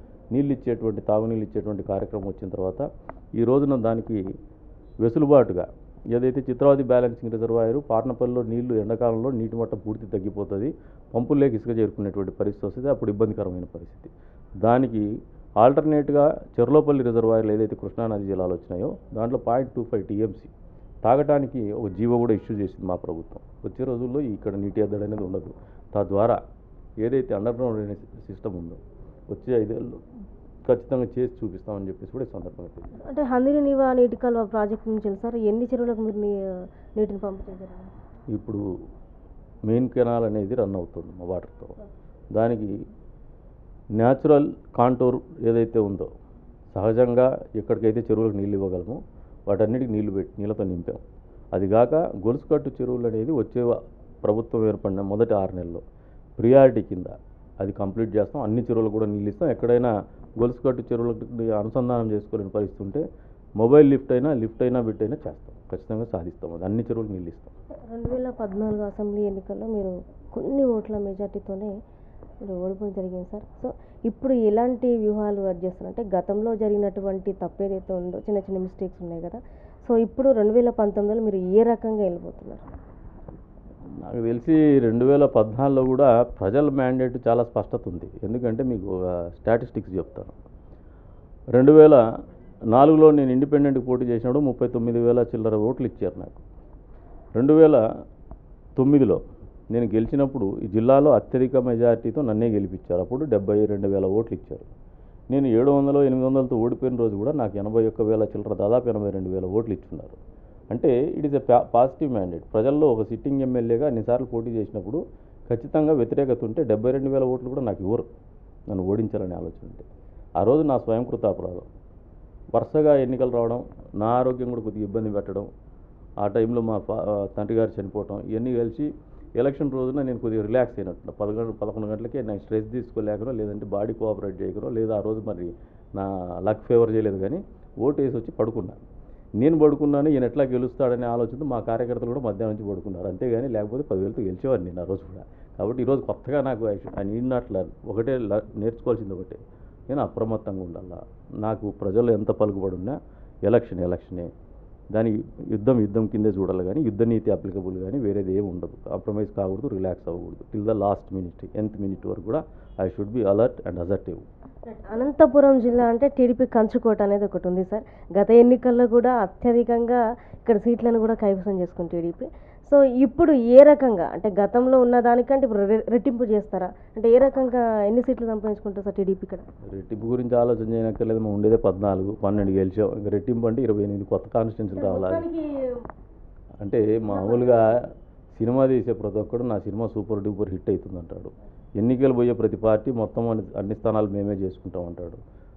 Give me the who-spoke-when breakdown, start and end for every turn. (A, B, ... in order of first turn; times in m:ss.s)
0:00.3-0:02.9 A
0:03.4-0:04.2 A
0:05.0-0:20.5 A
0:21.0-0:26.4 A
0:27.0-0:30.0 A
0:30.7-0:32.9 A
0:33.0-0:37.9 B
0:38.3-0:38.6 A
0:39.7-0:41.8 A
0:42.3-0:42.7 A
0:44.0-0:46.1 A
0:46.7-0:51.0 A
0:51.5-0:55.8 A
0:56.4-1:03.0 A
1:03.6-1:07.5 A
1:07.9-1:11.8 B
1:12.4-1:22.7 B
1:24.0-1:30.4 A
1:31.5-1:32.0 A
1:32.7-1:36.4 A
1:37.4-1:37.8 A
1:38.8-1:44.7 A
1:45.3-1:50.2 A
1:50.7-1:58.1 A
1:58.7-1:59.9 A
2:00.4-2:01.7 A
2:02.5-2:05.5 A
2:06.2-2:18.8 A
2:19.4-2:34.3 A
2:34.9-2:44.3 A
2:44.7-2:59.5 B
2:59.7-3:05.3 A
3:04.8-3:05.7 B
3:06.6-3:15.2 A
3:07.1-3:07.5 B